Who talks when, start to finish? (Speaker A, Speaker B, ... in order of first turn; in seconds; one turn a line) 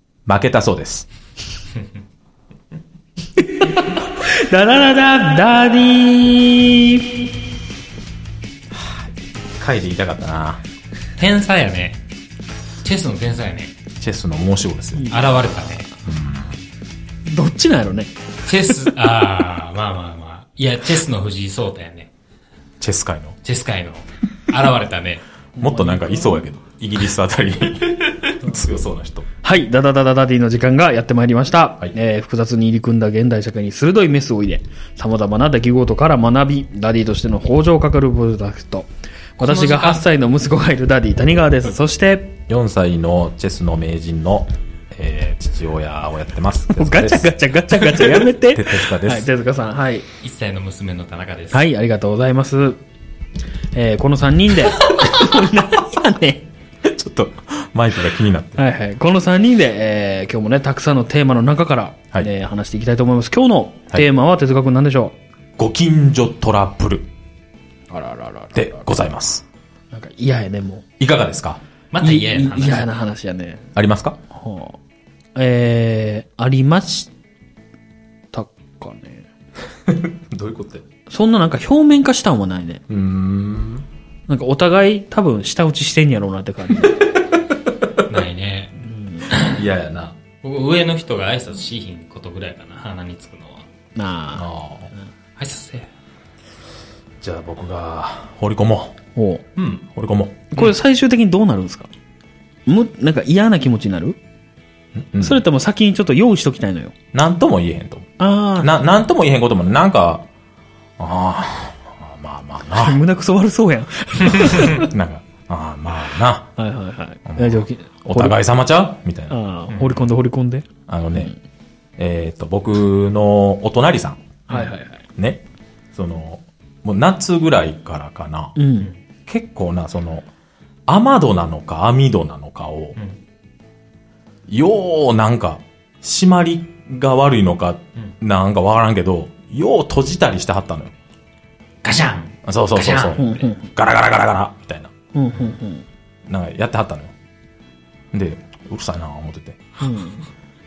Speaker A: 0.3-1.1
Speaker B: 3.4-7.3
Speaker A: 8.7-10.6
Speaker C: 11.2-12.0
Speaker C: 12.8-13.7
Speaker A: 14.0-15.2
Speaker B: 15.0-15.2
Speaker C: 15.1-15.9
Speaker A: 16.1-16.6
Speaker B: 17.3-18.1
Speaker C: 18.5-22.1
Speaker A: 22.8-23.4
Speaker C: 23.4-25.2
Speaker B: 25.6-26.5
Speaker A: 25.6-29.3
Speaker B: 29.4-42.4
Speaker C: 39.4-40.0
Speaker A: 42.5-49.3
Speaker B: 46.7-50.1
Speaker C: 50.2-51.6
Speaker B: 51.5-52.8
Speaker B: 53.7-56.5
Speaker A: 56.8-58.6
Speaker B: 58.6-65.2
Speaker A: 65.6-67.1
Speaker B: 67.9-68.9
Speaker A: 68.5-69.4
Speaker B: 69.9-70.8
Speaker A: 71.0-71.6
Speaker C: 71.9-72.9
Speaker B: 72.0-73.7
Speaker A: 73.8-74.2
Speaker B: 74.3-74.8
Speaker B: 75.3-77.1
Speaker B: 78.3-79.2
Speaker A: 79.9-80.8
Speaker B: 81.1-82.8
Speaker A: 82.9-83.8
Speaker B: 84.3-87.1
Speaker A: 87.8-88.0
Speaker C: 88.0-88.8
Speaker B: 88.8-89.3
Speaker C: 89.3-89.6
Speaker A: 89.3-90.2
Speaker C: 90.4-93.7
Speaker B: 94.0-94.5
Speaker A: 94.3-94.9
Speaker C: 95.4-95.9
Speaker A: 97.2-99.0
Speaker B: 99.2-99.4
Speaker C: 99.6-99.9
Speaker A: 100.0-100.5
Speaker B: 100.5-101.9
Speaker B: 102.7-104.2
Speaker A: 105.0-105.4
Speaker B: 105.2-107.0
Speaker A: 107.1-110.3
Speaker B: 108.2-108.7
Speaker A: 111.0-113.0
Speaker B: 112.7-114.9
Speaker A: 114.4-116.5
Speaker B: 116.6-118.4
Speaker A: 117.3-119.4
Speaker B: 119.3-121.3
Speaker C: 119.7-120.0
Speaker A: 120.9-121.3
Speaker A: 122.0-124.3
Speaker B: 124.5-125.0
Speaker A: 125.2-125.4
Speaker A: 125.9-128.6
Speaker B: 128.6-128.9
Speaker A: 129.3-130.3
Speaker A: 130.9-133.0
Speaker A: 134.5-140.9
Speaker C: 141.8-143.5
Speaker A: 142.4-144.9
Speaker B: 143.2-143.7
Speaker B: 145.1-145.9
Speaker A: 146.3-147.1
Speaker A: 148.1-149.6
Speaker B: 149.8-150.2